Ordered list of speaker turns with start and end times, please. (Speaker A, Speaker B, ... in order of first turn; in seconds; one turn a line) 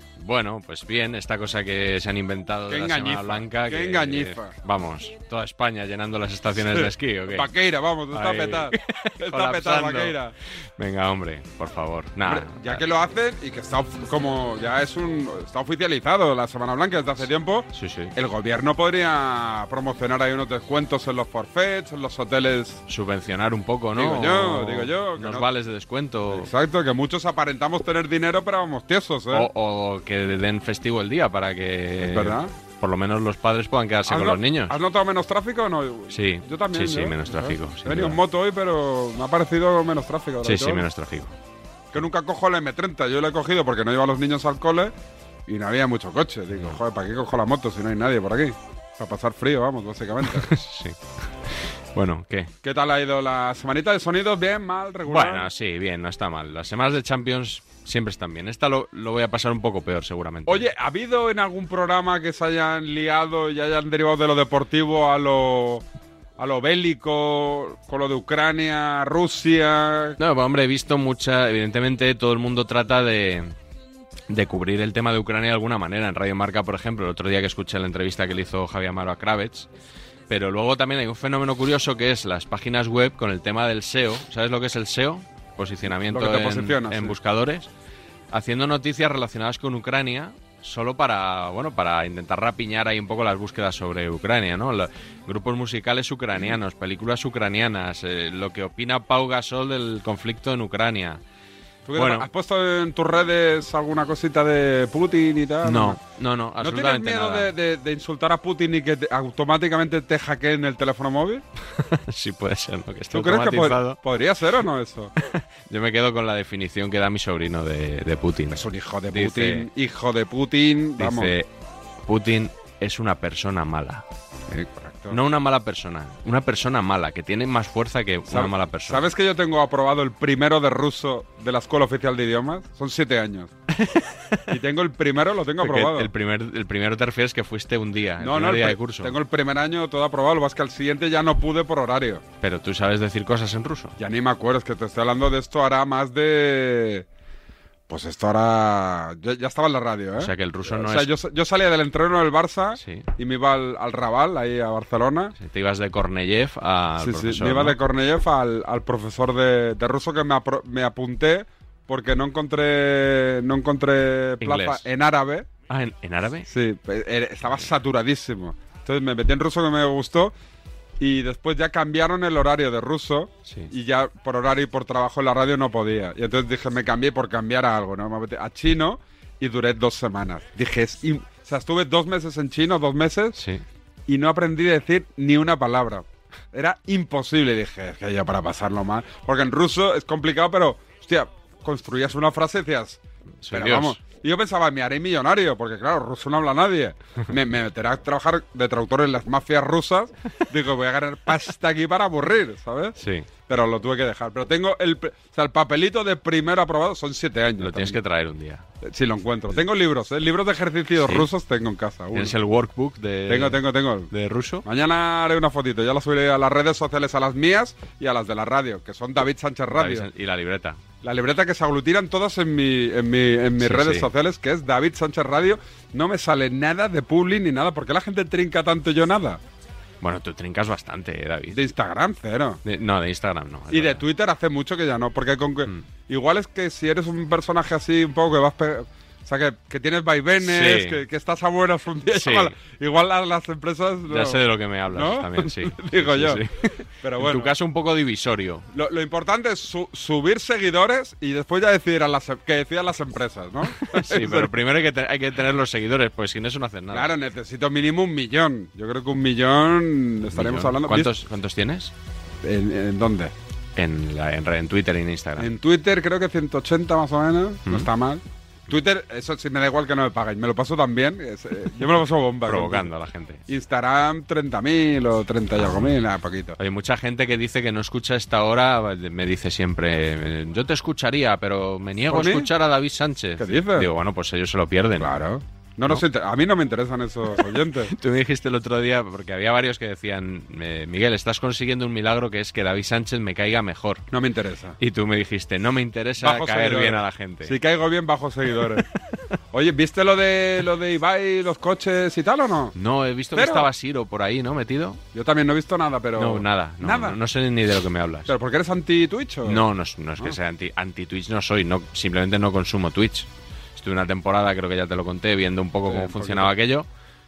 Speaker A: 0.2-7.5
Speaker B: 2.7-4.5
Speaker B: 6.6-10.3
Speaker A: 8.1-10.2
Speaker A: 10.8-12.8
Speaker B: 12.2-22.8
Speaker A: 17.7-18.1
Speaker A: 22.9-26.5
Speaker B: 23.9-25.5
Speaker B: 26.3-29.5
Speaker A: 29.3-34.7
Speaker B: 32.0-32.5
Speaker B: 34.1-40.9
Speaker A: 36.1-38.2
Speaker A: 40.4-41.3
Speaker B: 41.9-44.9
Speaker B: 45.5-50.5
Speaker A: 50.3-50.9
Speaker A: 51.9-52.5
Speaker B: 52.6-55.5
Speaker A: 55.0-60.7
Speaker B: 60.5-65.8
Speaker B: 66.4-70.2
Speaker A: 70.2-73.5
Speaker A: 74.3-79.7
Speaker A: 80.3-87.7
Speaker B: 85.8-87.2
Speaker A: 88.3-101.2
Speaker B: 101.9-106.0
Speaker A: 102.0-102.2
Speaker A: 105.6-107.5
Speaker B: 106.6-111.4
Speaker A: 111.8-114.0
Speaker B: 113.1-115.1
Speaker A: 115.3-119.7
Speaker B: 118.5-121.3
Speaker A: 121.0-121.5
Speaker A: 122.0-124.0
Speaker B: 124.5-125.2
Speaker A: 125.1-129.1
Speaker B: 128.3-133.5
Speaker B: 134.5-136.1
Speaker A: 135.6-139.1
Speaker B: 138.2-142.2
Speaker A: 142.4-143.9
Speaker B: 144.0-147.0
Speaker B: 147.9-155.3
Speaker A: 150.2-151.1
Speaker A: 152.8-153.1
Speaker A: 155.3-157.8
Speaker B: 157.0-165.5
Speaker A: 164.4-164.8
Speaker A: 165.7-166.5
Speaker B: 166.5-170.3
Speaker B: 171.0-183.4
Speaker A: 183.3-183.6
Speaker B: 184.1-202.9
Speaker A: 193.4-194.0
Speaker A: 203.0-203.3
Speaker B: 203.5-208.0
Speaker A: 207.6-208.6
Speaker B: 208.8-212.3
Speaker A: 211.0-211.2
Speaker A: 212.1-214.6
Speaker B: 213.3-214.1
Speaker B: 214.6-220.1
Speaker A: 219.7-220.8
Speaker B: 221.0-229.4
Speaker A: 223.6-224.1
Speaker A: 230.0-231.6
Speaker B: 231.5-232.6
Speaker A: 232.6-234.0
Speaker B: 233.7-246.4
Speaker A: 240.4-241.0
Speaker A: 242.1-242.5
Speaker A: 244.1-246.5
Speaker B: 247.0-247.5
Speaker A: 247.2-248.6
Speaker B: 248.7-254.5
Speaker A: 253.8-257.1
Speaker B: 256.9-261.1
Speaker A: 260.3-261.9
Speaker B: 262.4-263.3
Speaker A: 263.8-265.5
Speaker B: 265.4-272.9
Speaker A: 272.5-273.4
Speaker B: 273.5-276.6
Speaker A: 275.6-275.9
Speaker A: 276.6-285.1
Speaker B: 282.1-282.5
Speaker B: 283.4-283.9
Speaker B: 285.0-287.9
Speaker A: 287.9-294.0
Speaker B: 294.1-294.8
Speaker A: 294.8-297.5
Speaker B: 296.2-298.8
Speaker B: 299.5-302.7
Speaker A: 302.7-305.0
Speaker B: 303.3-303.7
Speaker B: 305.1-307.2
Speaker A: 306.2-308.3
Speaker B: 308.3-309.6
Speaker A: 309.4-316.9
Speaker B: 315.9-316.5